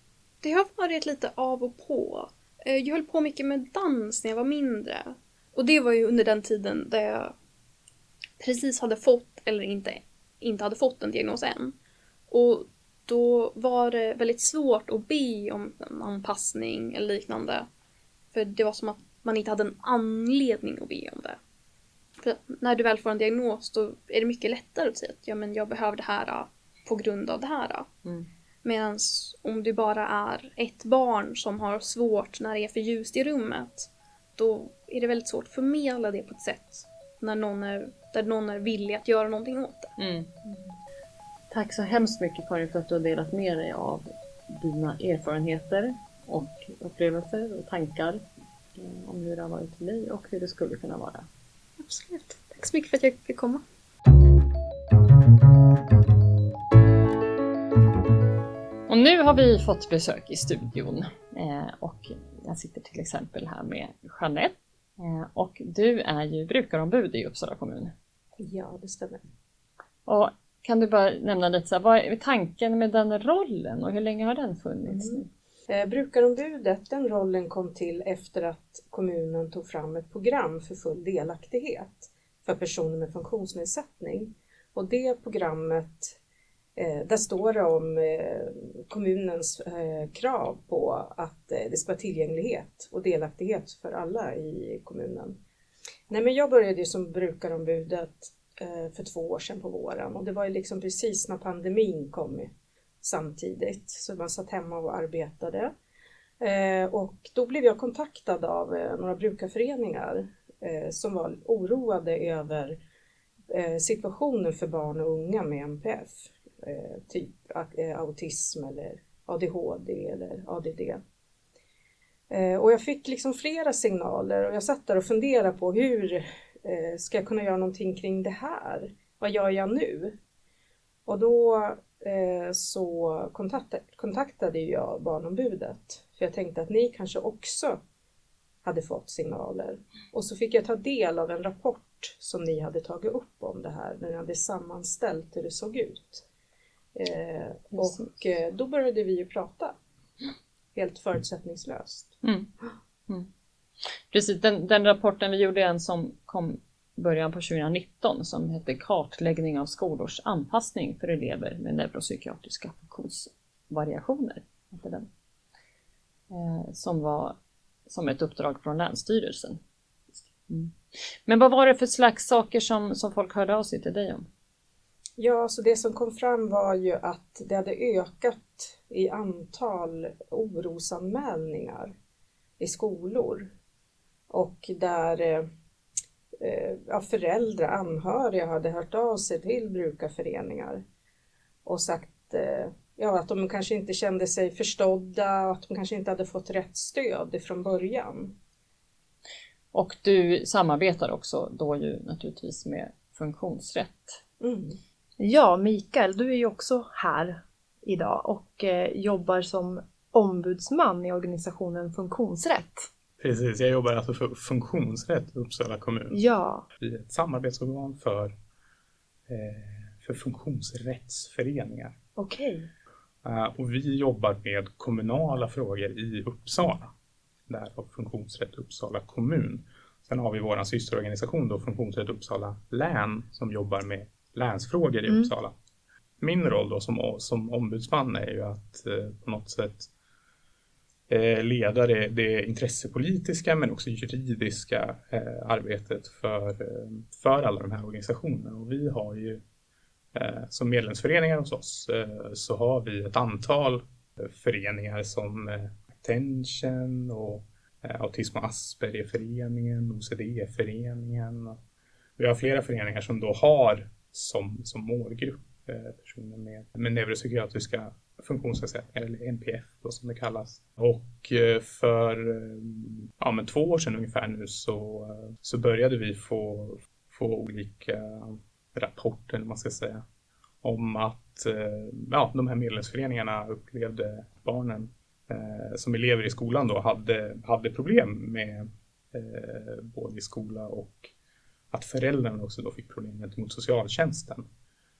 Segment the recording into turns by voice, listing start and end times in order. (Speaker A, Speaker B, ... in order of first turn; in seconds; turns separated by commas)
Speaker A: 0.4-7.3, Speaker A: 8.4-11.8, Speaker A: 12.3-17.7, Speaker A: 18.3-21.4, Speaker A: 22.2-27.9, Speaker A: 28.6-39.9, Speaker B: 40.0-40.3, Speaker B: 41.5-48.2, Speaker B: 48.8-51.3, Speaker A: 51.8-53.6, Speaker B: 58.9-67.9, Speaker C: 68.4-69.2, Speaker B: 70.1-75.3, Speaker C: 74.9-86.2, Speaker C: 86.8-95.4, Speaker C: 96.1-105.7, Speaker C: 106.4-112.8, Speaker C: 113.5-121.0, Speaker C: 122.3-130.2, Speaker C: 131.1-137.8, Speaker C: 138.6-146.2, Speaker C: 146.9-149.8, Speaker B: 147.7-148.0, Speaker C: 150.8-152.2, Speaker B: 152.2-152.5, Speaker B: 154.1-165.1, Speaker B: 166.3-167.4, Speaker B: 167.9-169.6, Speaker B: 170.2-170.8, Speaker B: 171.3-174.3, Speaker C: 175.2-181.9, Speaker C: 182.6-183.5, Speaker C: 184.3-185.5, Speaker C: 186.4-190.8, Speaker C: 191.6-198.3, Speaker B: 199.7-204.2, Speaker C: 204.4-204.8, Speaker D: 205.2-212.9, Speaker E: 213.2-216.2, Speaker D: 216.1-216.6, Speaker E: 216.8-218.3, Speaker E: 219.3-222.0, Speaker D: 222.2-222.7, Speaker E: 223.2-226.9, Speaker E: 227.5-235.5, Speaker D: 235.1-235.3, Speaker E: 236.2-239.9, Speaker E: 241.1-249.4, Speaker E: 250.1-261.6, Speaker E: 262.2-280.0, Speaker E: 280.6-291.1, Speaker E: 291.7-294.5